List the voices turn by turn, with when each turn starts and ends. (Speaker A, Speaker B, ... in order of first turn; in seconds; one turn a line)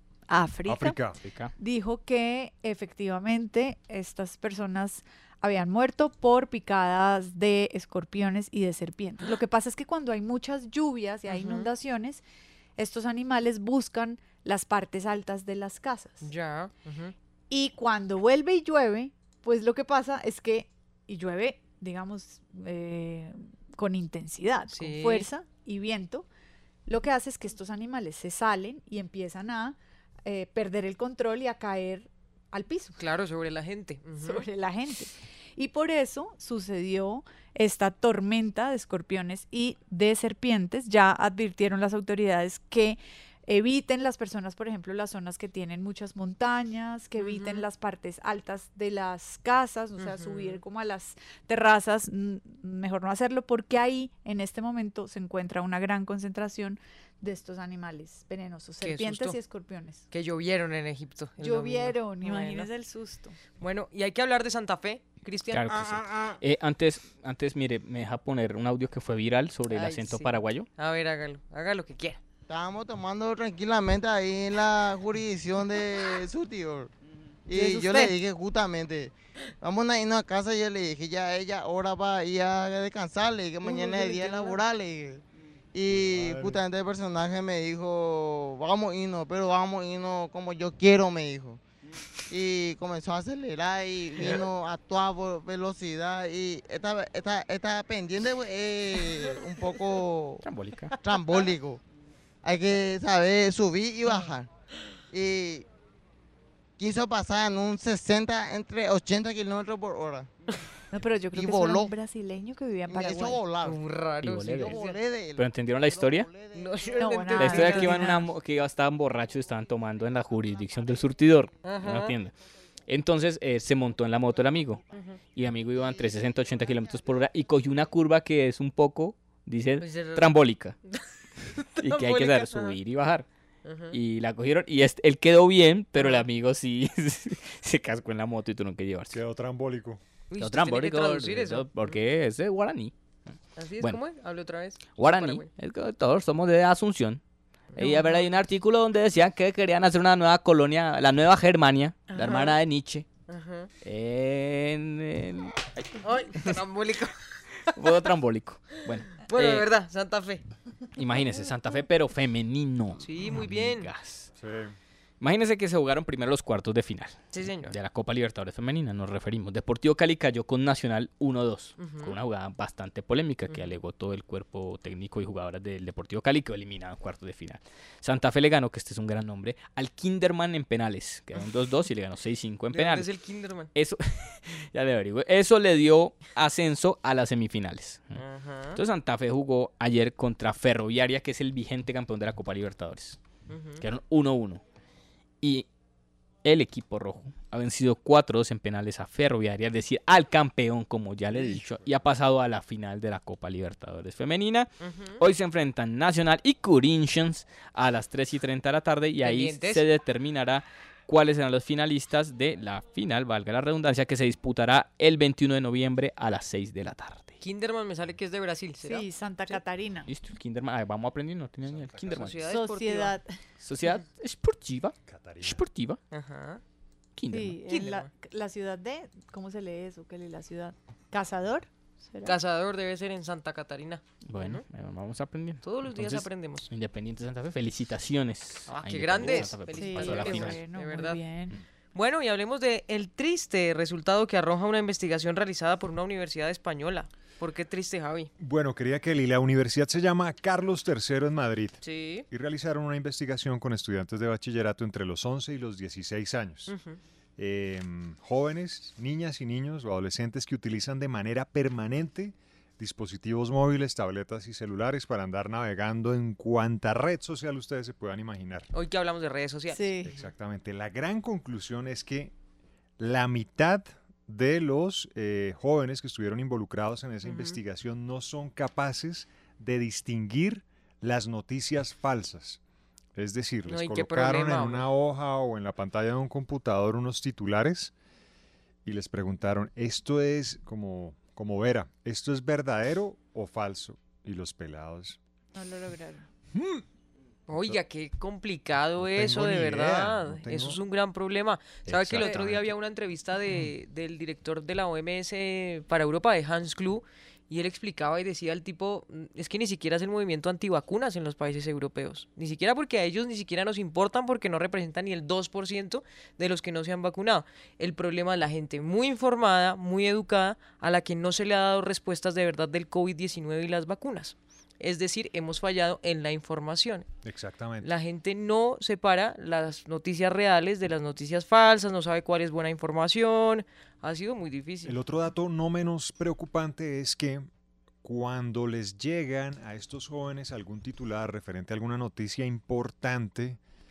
Speaker A: 0.3-1.0
Speaker B: 0.7-1.2
Speaker C: 1.2-1.5
Speaker A: 1.6-12.2
Speaker D: 11.3-11.7
Speaker A: 12.8-16.3
Speaker D: 16.2-17.1
Speaker A: 17.5-26.3
Speaker D: 24.7-25.3
Speaker A: 26.9-33.0
Speaker D: 33.0-34.5
Speaker A: 34.2-60.1
Speaker D: 47.2-47.6
Speaker D: 50.0-50.6
Speaker D: 58.8-59.4
Speaker D: 60.1-62.7
Speaker A: 61.4-63.4
Speaker D: 63.6-66.2
Speaker C: 65.5-70.7
Speaker D: 69.7-72.2
Speaker E: 72.5-76.9
Speaker E: 77.5-85.2
Speaker A: 77.5-78.1
Speaker D: 83.7-84.6
Speaker E: 85.7-91.6
Speaker B: 85.9-86.6
Speaker E: 92.3-100.4
Speaker C: 100.4-100.9
Speaker E: 101.0-101.8
Speaker E: 102.4-104.5
Speaker E: 105.1-105.7
Speaker E: 106.8-110.3
Speaker A: 110.9-113.4
Speaker E: 111.3-111.9
Speaker E: 112.9-113.8
Speaker D: 113.6-115.0
Speaker C: 114.2-114.8
Speaker E: 114.6-116.9
Speaker C: 115.4-116.3
Speaker D: 116.5-118.1
Speaker A: 117.0-118.3
Speaker C: 117.4-122.3
Speaker D: 121.6-122.2
Speaker C: 122.9-124.8
Speaker D: 124.9-125.2
Speaker C: 125.3-130.8
Speaker D: 129.8-130.3
Speaker D: 131.6-132.8
Speaker C: 131.8-133.3
Speaker D: 133.7-134.0
Speaker C: 133.9-139.2
Speaker D: 136.0-136.2
Speaker B: 139.1-140.0
Speaker D: 140.3-141.9
Speaker C: 140.4-142.9
Speaker D: 143.6-145.5
Speaker C: 145.0-147.2
Speaker D: 147.7-148.2
Speaker C: 147.8-153.1
Speaker D: 152.1-152.6
Speaker D: 153.3-153.7
Speaker C: 153.8-156.5
Speaker D: 156.0-157.1
Speaker C: 157.8-159.7
Speaker D: 159.2-160.4
Speaker C: 161.0-164.3
Speaker D: 163.0-163.9
Speaker B: 164.4-164.8
Speaker C: 165.2-183.1
Speaker D: 167.3-167.8
Speaker D: 171.8-172.1
Speaker D: 173.5-173.8
Speaker D: 182.7-183.7
Speaker C: 183.7-188.2
Speaker D: 188.2-188.8
Speaker C: 188.7-193.2
Speaker D: 193.5-193.8
Speaker C: 193.8-194.6
Speaker C: 195.4-195.7
Speaker C: 196.4-217.4
Speaker B: 201.3-202.0
Speaker D: 204.8-205.2
Speaker D: 209.2-209.8
Speaker D: 217.4-219.6
Speaker A: 218.8-220.1
Speaker C: 220.1-222.4
Speaker B: 221.6-222.3
Speaker D: 222.1-223.2
Speaker A: 222.5-223.3
Speaker C: 223.6-226.0
Speaker B: 225.1-225.6
Speaker D: 226.1-226.6
Speaker C: 227.2-227.6
Speaker A: 227.3-232.4
Speaker D: 227.7-228.1
Speaker D: 232.2-234.6
Speaker C: 234.3-240.6
Speaker D: 235.6-236.7
Speaker D: 238.7-241.2
Speaker A: 239.7-241.6
Speaker D: 241.9-248.3
Speaker B: 248.4-256.7
Speaker D: 251.8-252.3
Speaker D: 256.7-257.0
Speaker B: 257.4-268.7
Speaker D: 268.7-270.1
Speaker A: 269.7-270.1
Speaker B: 270.0-272.3
Speaker B: 273.0-282.6
Speaker D: 277.2-277.6
Speaker B: 283.1-287.9
Speaker D: 283.7-284.9
Speaker B: 288.9-295.2
Speaker A: 295.5-296.3
Speaker B: 296.5-296.8
Speaker D: 297.5-327.1
Speaker B: 297.5-297.8
Speaker B: 299.0-300.8
Speaker B: 301.9-302.7
Speaker B: 327.2-327.9
Speaker D: 327.8-335.0
Speaker B: 334.8-337.5
Speaker B: 338.0-343.6